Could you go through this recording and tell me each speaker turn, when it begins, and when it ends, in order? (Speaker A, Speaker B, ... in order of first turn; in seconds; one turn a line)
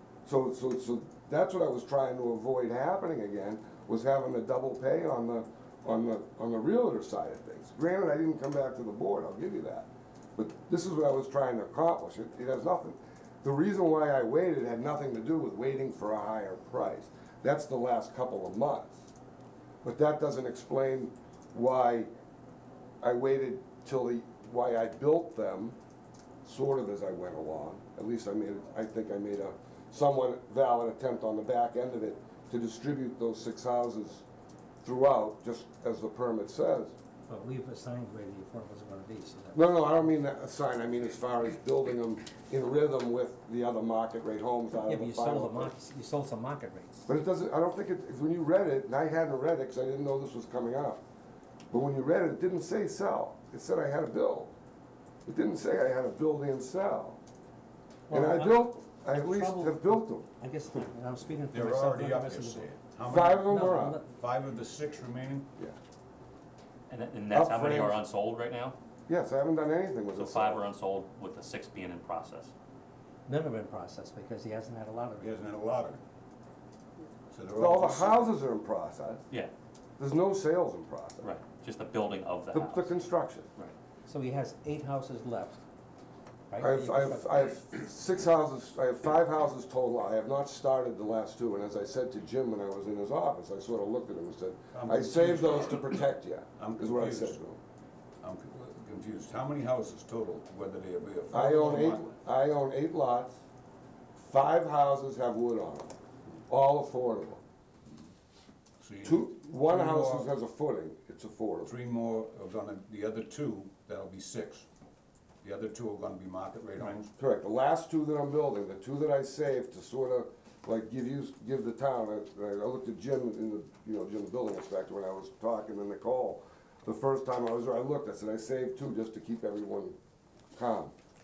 Speaker A: 0.3-19.1
Speaker A: 19.8-22.1
Speaker A: 23.0-25.8
Speaker A: 26.4-34.2
Speaker A: 34.8-37.0
Speaker B: 37.3-39.8
Speaker A: 39.5-45.7
Speaker B: 44.9-47.1
Speaker A: 47.1-51.0
Speaker A: 51.7-54.5
Speaker A: 55.3-57.2
Speaker B: 58.1-62.7
Speaker A: 58.1-60.3
Speaker C: 61.5-65.5
Speaker A: 63.1-64.0
Speaker B: 63.5-64.1
Speaker D: 66.9-68.8
Speaker A: 67.3-68.0
Speaker A: 69.1-70.7
Speaker D: 70.2-72.5
Speaker B: 73.3-75.3
Speaker C: 75.2-76.0
Speaker C: 77.3-78.4
Speaker A: 77.5-79.3
Speaker A: 80.0-81.3
Speaker D: 81.2-82.9
Speaker A: 82.5-83.5
Speaker B: 84.1-85.6
Speaker B: 86.5-87.4
Speaker A: 86.6-97.6
Speaker C: 94.7-95.9
Speaker C: 96.6-97.4
Speaker C: 98.2-102.1
Speaker A: 101.3-103.4
Speaker A: 104.2-105.9
Speaker A: 106.5-107.4
Speaker C: 108.8-110.3
Speaker A: 109.0-111.7
Speaker C: 111.7-114.7
Speaker C: 115.4-117.1
Speaker A: 117.2-130.0
Speaker A: 130.6-130.9